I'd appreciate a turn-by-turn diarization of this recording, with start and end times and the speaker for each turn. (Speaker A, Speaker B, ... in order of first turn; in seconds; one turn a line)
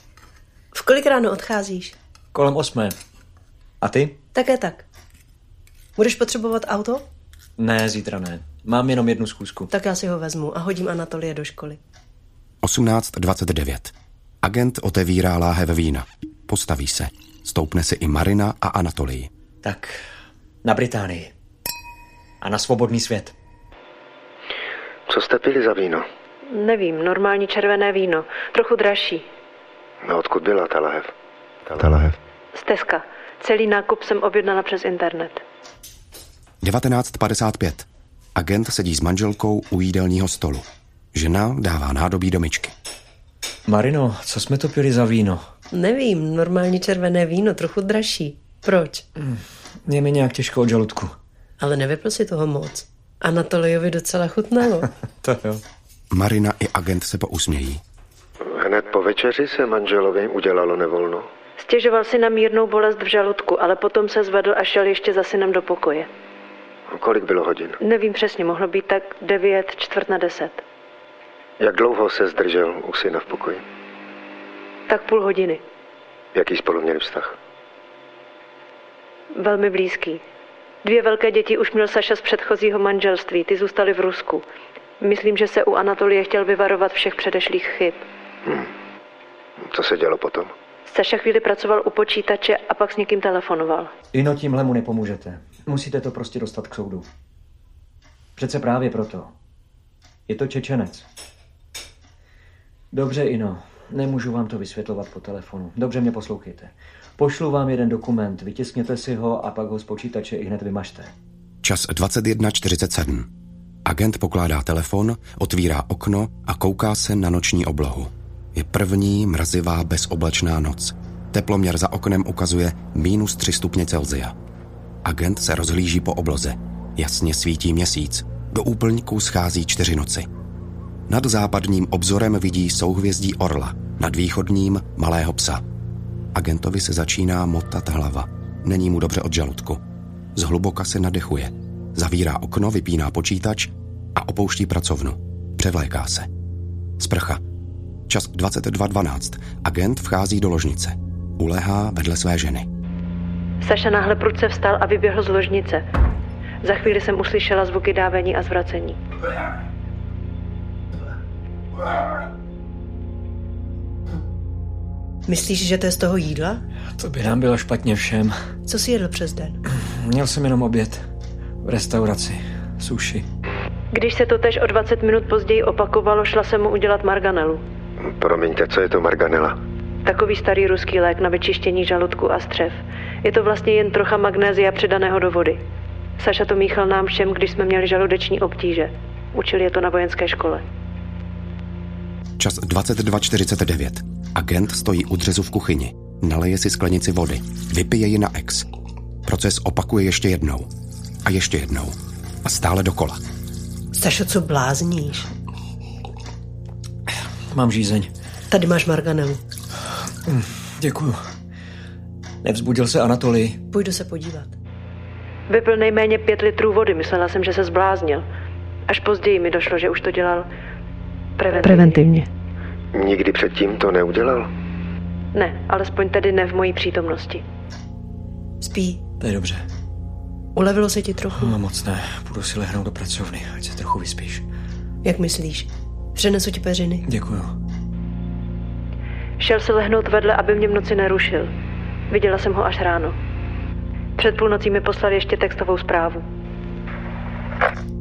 Speaker A: 0.7-1.9
Speaker B: 2.3-2.9
Speaker B: 3.8-4.2
Speaker A: 4.3-4.8
Speaker A: 6.0-7.0
Speaker B: 7.6-9.7
Speaker A: 9.7-11.8
Speaker C: 12.6-19.3
Speaker B: 19.6-20.0
Speaker B: 20.6-21.3
Speaker B: 22.4-23.3
Speaker D: 25.1-26.0
Speaker E: 26.4-29.2
Speaker D: 30.0-31.1
Speaker D: 31.6-32.2
Speaker E: 32.5-35.4
Speaker C: 36.6-42.7
Speaker B: 43.7-45.4
Speaker A: 45.7-49.0
Speaker B: 49.2-51.1
Speaker A: 51.6-54.9
Speaker B: 55.2-55.6
Speaker C: 56.1-57.8
Speaker D: 58.4-61.2
Speaker E: 61.6-66.1
Speaker D: 66.9-67.8
Speaker E: 67.8-70.6
Speaker D: 71.6-73.6
Speaker E: 74.9-75.6
Speaker D: 76.3-77.3
Speaker E: 79.3-80.2
Speaker E: 80.8-84.4
Speaker E: 85.0-88.0
Speaker D: 89.6-90.5
Speaker E: 90.8-93.9
Speaker B: 94.1-97.0
Speaker B: 98.4-99.3
Speaker B: 100.3-101.0
Speaker B: 102.9-111.1
Speaker C: 111.6-113.3
Speaker C: 113.8-124.3
Speaker C: 125.0-130.3
Speaker C: 131.1-135.6
Speaker C: 136.3-139.8
Speaker C: 140.3-146.3
Speaker C: 147.0-147.4
Speaker C: 148.1-152.7
Speaker E: 153.6-155.8
Speaker E: 156.6-159.0
Speaker A: 165.3-166.6
Speaker B: 167.0-168.3
Speaker A: 168.7-169.6
Speaker B: 169.7-171.0
Speaker B: 171.6-173.2
Speaker E: 173.9-177.6
Speaker D: 178.0-179.6
Speaker E: 180.0-185.6
Speaker E: 186.2-190.6
Speaker C: 192.4-198.7
Speaker C: 199.2-200.7
Speaker C: 201.2-203.2
Speaker A: 204.0-205.3
Speaker B: 207.5-208.1
Speaker A: 208.5-209.4
Speaker B: 210.3-211.2
Speaker B: 212.4-213.6
Speaker A: 213.7-214.5
Speaker E: 215.5-218.2
Speaker E: 218.9-220.5
Speaker E: 221.4-222.0
Speaker A: 221.6-222.3
Speaker D: 222.9-224.5
Speaker E: 225.3-227.4
Speaker A: 228.6-229.0
Speaker B: 229.2-229.6
Speaker A: 230.5-231.5
Speaker B: 231.3-234.4
Speaker A: 235.0-237.0
Speaker B: 237.1-237.5
Speaker E: 239.4-241.5
Speaker E: 242.1-243.2
Speaker E: 244.2-246.2